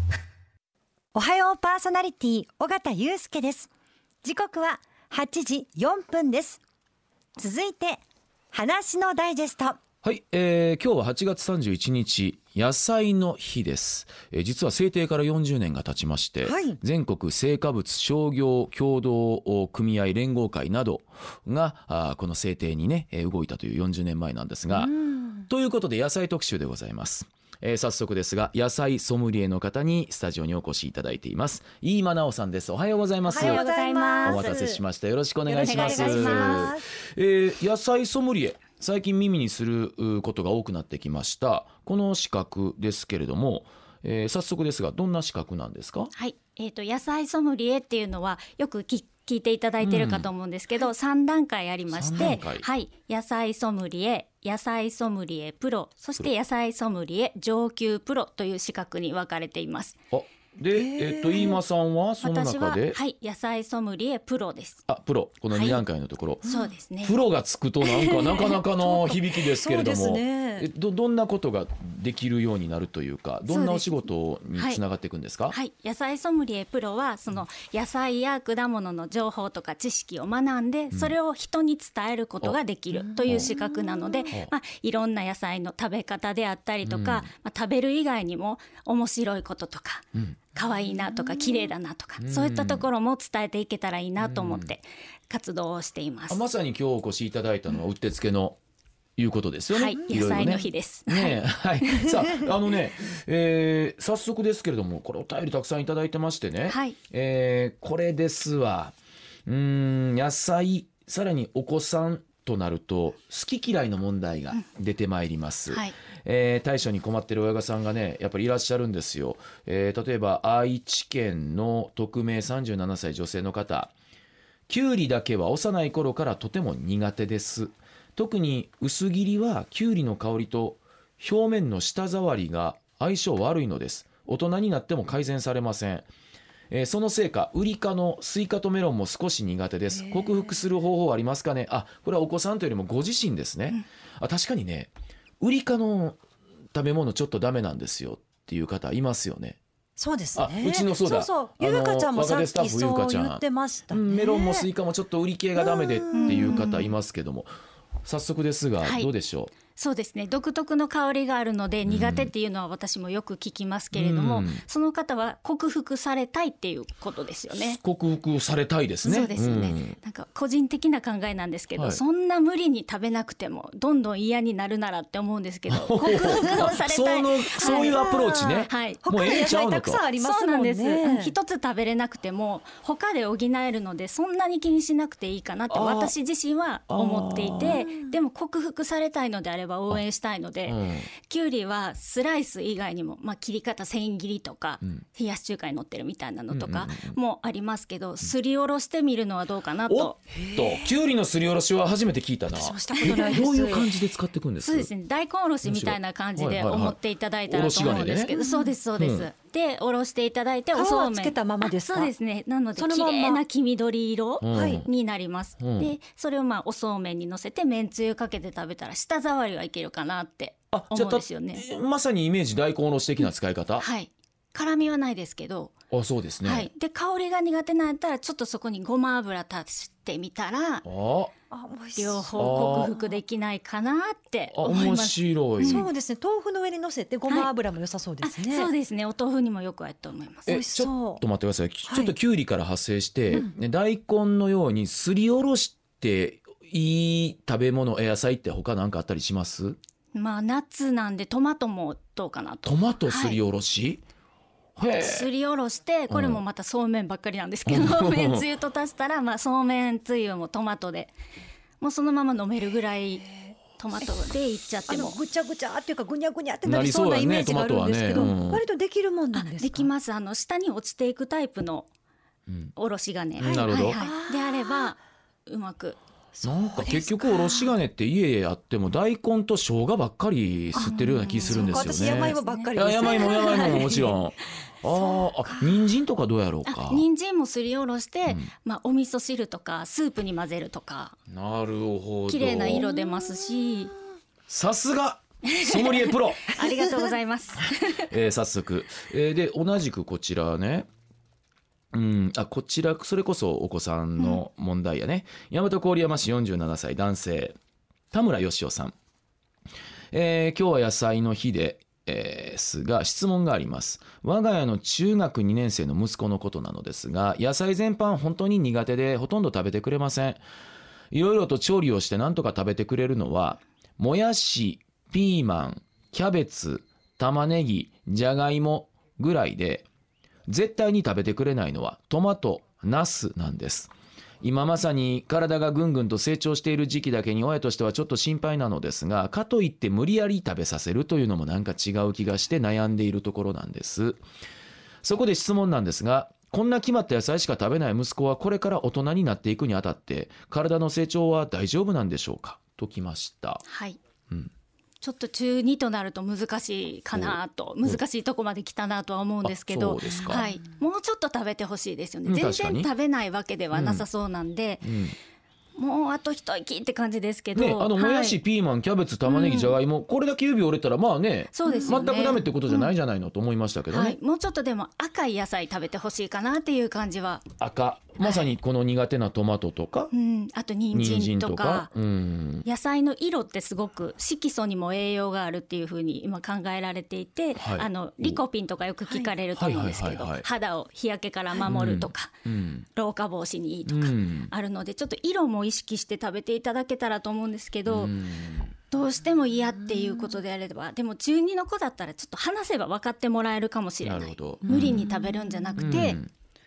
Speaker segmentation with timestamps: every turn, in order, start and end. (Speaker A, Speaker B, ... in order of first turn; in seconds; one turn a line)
Speaker A: 1.1-3.7
Speaker A: 4.2-6.6
Speaker A: 7.4-9.8
Speaker B: 10.0-24.9
Speaker A: 16.4-16.8
Speaker A: 24.7-25.5
Speaker B: 25.5-33.6
Speaker A: 33.3-34.8
Speaker C: 33.3-34.5
Speaker B: 34.2-46.1
Speaker A: 35.5-36.8
Speaker C: 35.6-36.7
Speaker C: 46.1-60.0
Speaker B: 49.8-50.3
Speaker B: 51.9-52.6
Speaker B: 60.1-63.0
Speaker A: 60.7-61.6
Speaker C: 62.2-64.8
Speaker B: 64.9-66.4
Speaker C: 65.5-65.8
Speaker A: 66.4-66.7
Speaker C: 66.4-67.2
Speaker B: 67.0-75.5
Speaker A: 67.8-70.7
Speaker C: 73.5-73.9
Speaker C: 75.5-96.4
Speaker A: 83.2-84.2
Speaker B: 83.2-83.5
Speaker B: 86.8-87.3
Speaker B: 92.2-92.9
Speaker B: 94.2-94.7
Speaker B: 96.3-98.6
Speaker B: 99.2-108.9
Speaker C: 99.7-101.3
Speaker A: 100.0-100.6
Speaker C: 106.7-107.0
Speaker B: 109.5-123.9
Speaker C: 115.7-115.9
Speaker B: 124.7-136.1
Speaker B: 136.7-146.2
Speaker A: 139.9-140.6
Speaker B: 146.7-149.6
Speaker A: 150.0-154.7
Speaker B: 150.3-157.5
Speaker A: 155.6-156.9
Speaker C: 156.1-156.9
Speaker B: 158.0-159.5
Speaker C: 158.8-159.1
Speaker C: 159.7-167.8
Speaker B: 161.8-162.3
Speaker B: 163.9-164.6
Speaker B: 167.5-170.0
Speaker C: 169.0-178.0
Speaker B: 171.8-172.0
Speaker B: 175.7-180.0
Speaker A: 176.0-176.7
Speaker A: 177.6-181.3
Speaker C: 178.7-179.4
Speaker C: 180.2-200.2
Speaker B: 185.7-186.1
Speaker B: 186.9-187.8
Speaker A: 187.7-188.1
Speaker B: 190.7-191.1
Speaker B: 196.5-197.2
Speaker B: 199.9-204.9
Speaker A: 200.3-200.9
Speaker A: 202.5-203.9
Speaker C: 203.0-203.3
Speaker C: 204.6-221.6
Speaker B: 205.6-207.0
Speaker B: 207.5-208.3
Speaker A: 208.3-208.7
Speaker B: 209.0-209.3
Speaker A: 210.7-212.1
Speaker A: 212.8-213.4
Speaker B: 214.4-214.9
Speaker A: 214.5-214.8
Speaker B: 215.6-215.9
Speaker B: 220.7-223.8
Speaker C: 223.8-225.7
Speaker B: 225.9-226.7
Speaker C: 226.4-230.8
Speaker B: 230.8-231.3
Speaker A: 231.5-233.2
Speaker C: 231.9-235.8
Speaker B: 232.3-232.9
Speaker B: 234.5-235.8
Speaker A: 235.6-238.7
Speaker C: 238.2-240.5
Speaker A: 240.5-241.2
Speaker B: 240.5-249.8
Speaker A: 241.9-242.1
Speaker C: 250.1-253.4
Speaker B: 252.6-254.0
Speaker B: 254.8-255.3
Speaker C: 255.0-261.1
Speaker B: 256.1-256.4
Speaker B: 257.6-258.4
Speaker C: 261.8-265.2
Speaker A: 264.9-269.9
Speaker B: 266.6-268.6
Speaker C: 269.3-271.9
Speaker B: 272.5-272.7
Speaker C: 272.8-276.0
Speaker B: 273.4-274.0
Speaker A: 273.5-274.9
Speaker A: 276.4-277.8
Speaker B: 276.4-287.0
Speaker A: 280.7-284.2
Speaker C: 280.7-284.1
Speaker A: 285.1-285.8
Speaker C: 286.6-291.1
Speaker B: 291.3-292.9
Speaker C: 292.3-293.9
Speaker B: 294.5-296.6
Speaker C: 295.4-298.1
Speaker A: 296.6-297.1
Speaker B: 298.0-300.9
Speaker B: 301.9-307.6
Speaker B: 308.1-308.9
Speaker B: 310.1-320.4
Speaker B: 321.1-329.9
Speaker B: 330.5-333.9
Speaker B: 334.4-344.2
Speaker B: 345.0-353.6
Speaker C: 353.6-354.0
Speaker C: 355.0-364.9
Speaker B: 357.1-358.0
Speaker B: 359.4-360.4
Speaker B: 362.3-362.9
Speaker B: 363.7-364.0
Speaker B: 364.8-365.1
Speaker C: 365.8-368.4
Speaker B: 367.5-374.2
Speaker C: 369.2-369.8
Speaker C: 371.5-372.9
Speaker C: 373.9-377.5
Speaker B: 377.6-380.1
Speaker C: 378.2-378.5
Speaker C: 380.1-381.9
Speaker B: 380.9-382.6
Speaker C: 382.6-392.4
Speaker B: 387.6-388.4
Speaker B: 389.5-390.4
Speaker B: 391.7-392.9
Speaker C: 392.9-398.2
Speaker B: 393.9-394.5
Speaker B: 397.9-398.7
Speaker C: 398.9-406.2
Speaker B: 404.0-405.1
Speaker A: 404.7-406.0
Speaker B: 405.8-406.3